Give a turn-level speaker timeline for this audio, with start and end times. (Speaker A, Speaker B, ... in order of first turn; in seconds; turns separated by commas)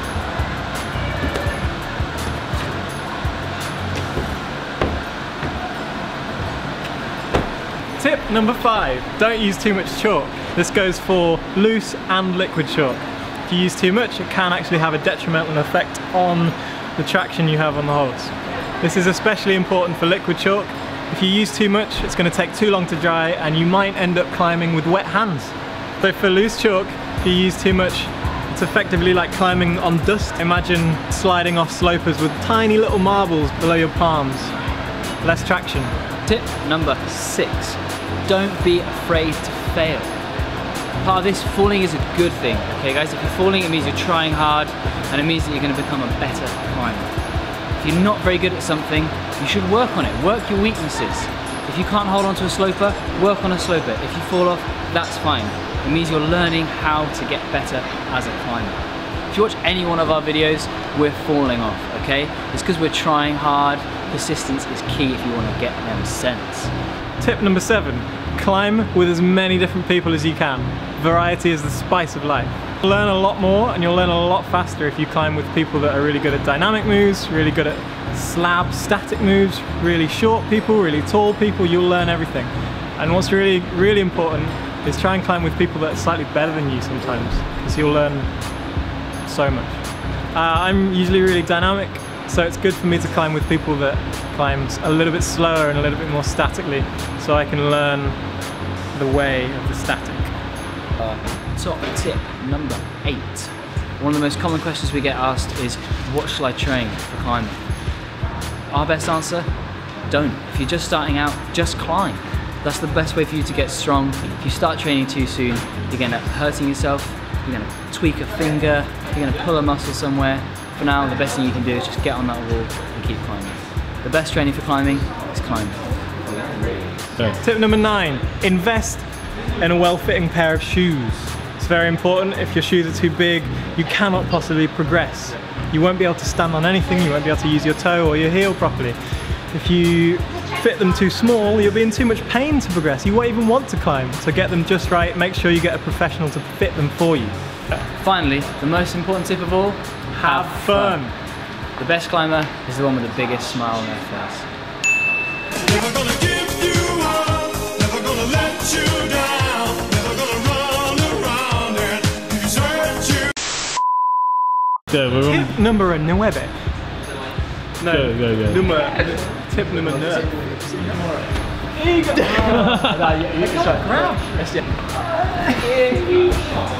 Speaker A: 8.0-34.5, Speaker A: 35.2-35.9, Speaker B: 36.2-40.1, Speaker B: 41.0-47.1, Speaker B: 47.7-66.7, Speaker A: 67.2-88.3, Speaker A: 89.2-89.8, Speaker A: 90.3-98.2, Speaker A: 98.9-100.3, Speaker B: 101.0-107.6, Speaker B: 108.7-109.5, Speaker B: 110.1-127.1, Speaker A: 127.4-129.1, Speaker A: 129.6-139.0, Speaker A: 139.5-147.3, Speaker B: 147.8-151.0, Speaker A: 150.1-151.1, Speaker B: 151.8-154.5, Speaker A: 155.7-162.9, Speaker C: 164.9-165.5, Speaker A: 165.2-166.5, Speaker A: 167.8-170.4, Speaker C: 167.8-168.6, Speaker A: 171.7-174.6, Speaker C: 172.5-173.1, Speaker B: 172.9-173.4, Speaker A: 175.1-175.8, Speaker B: 175.6-176.4